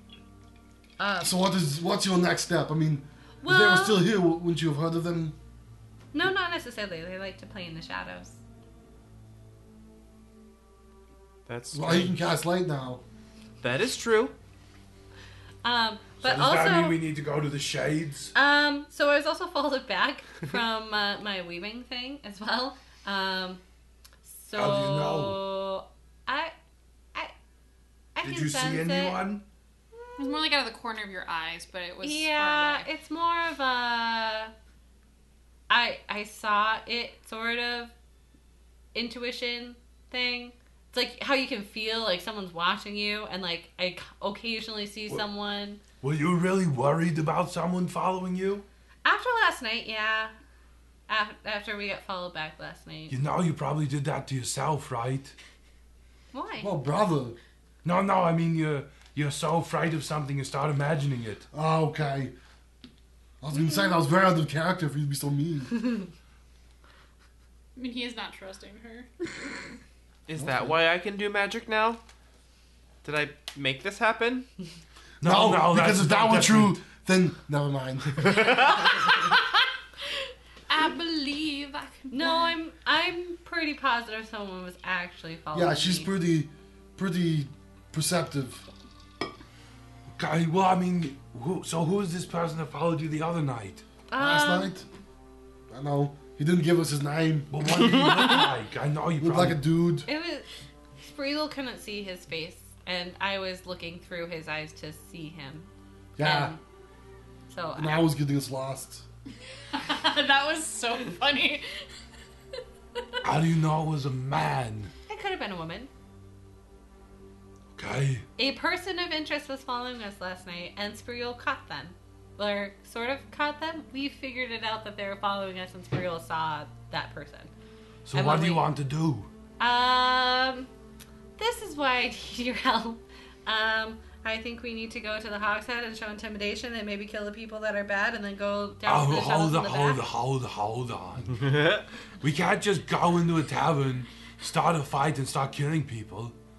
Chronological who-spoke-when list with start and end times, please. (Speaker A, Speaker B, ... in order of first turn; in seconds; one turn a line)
Speaker A: 1.0-1.3
Speaker B: 1.2-5.3
Speaker A: 3.4-4.0
Speaker A: 6.1-8.3
Speaker C: 11.4-12.2
Speaker B: 11.7-13.0
Speaker C: 13.6-14.3
Speaker A: 15.6-17.0
Speaker D: 16.2-18.3
Speaker A: 18.3-23.6
Speaker A: 24.2-26.5
Speaker D: 24.5-25.4
Speaker A: 28.1-29.2
Speaker D: 28.2-29.4
Speaker A: 29.9-30.5
Speaker E: 30.2-32.9
Speaker A: 32.0-34.5
Speaker A: 35.7-37.9
Speaker A: 38.9-45.8
Speaker D: 46.0-48.6
Speaker A: 49.0-50.3
Speaker A: 51.1-53.1
Speaker D: 53.1-55.3
Speaker A: 56.3-56.7
Speaker B: 56.6-57.4
Speaker D: 57.8-61.5
Speaker B: 61.5-62.3
Speaker B: 63.4-65.8
Speaker E: 67.8-69.6
Speaker C: 70.3-72.0
Speaker B: 70.3-70.8
Speaker C: 73.0-74.5
Speaker D: 75.2-76.8
Speaker B: 75.2-78.7
Speaker A: 78.2-79.3
Speaker E: 80.7-82.5
Speaker A: 82.1-86.1
Speaker B: 85.5-88.6
Speaker D: 90.2-93.8
Speaker A: 94.1-94.7
Speaker B: 94.2-94.8
Speaker B: 95.7-97.7
Speaker D: 97.5-99.6
Speaker B: 99.2-100.1
Speaker A: 100.0-100.5
Speaker A: 101.0-106.6
Speaker B: 106.2-106.5
Speaker A: 107.5-108.0
Speaker B: 107.8-109.0
Speaker E: 109.7-111.6
Speaker D: 113.2-114.9
Speaker A: 115.1-115.9
Speaker D: 117.7-118.2
Speaker A: 118.4-127.5
Speaker D: 128.1-129.3
Speaker A: 128.1-128.7
Speaker A: 129.6-130.7
Speaker A: 131.4-140.0
Speaker D: 138.8-141.6
Speaker C: 141.5-141.8
Speaker D: 142.2-146.3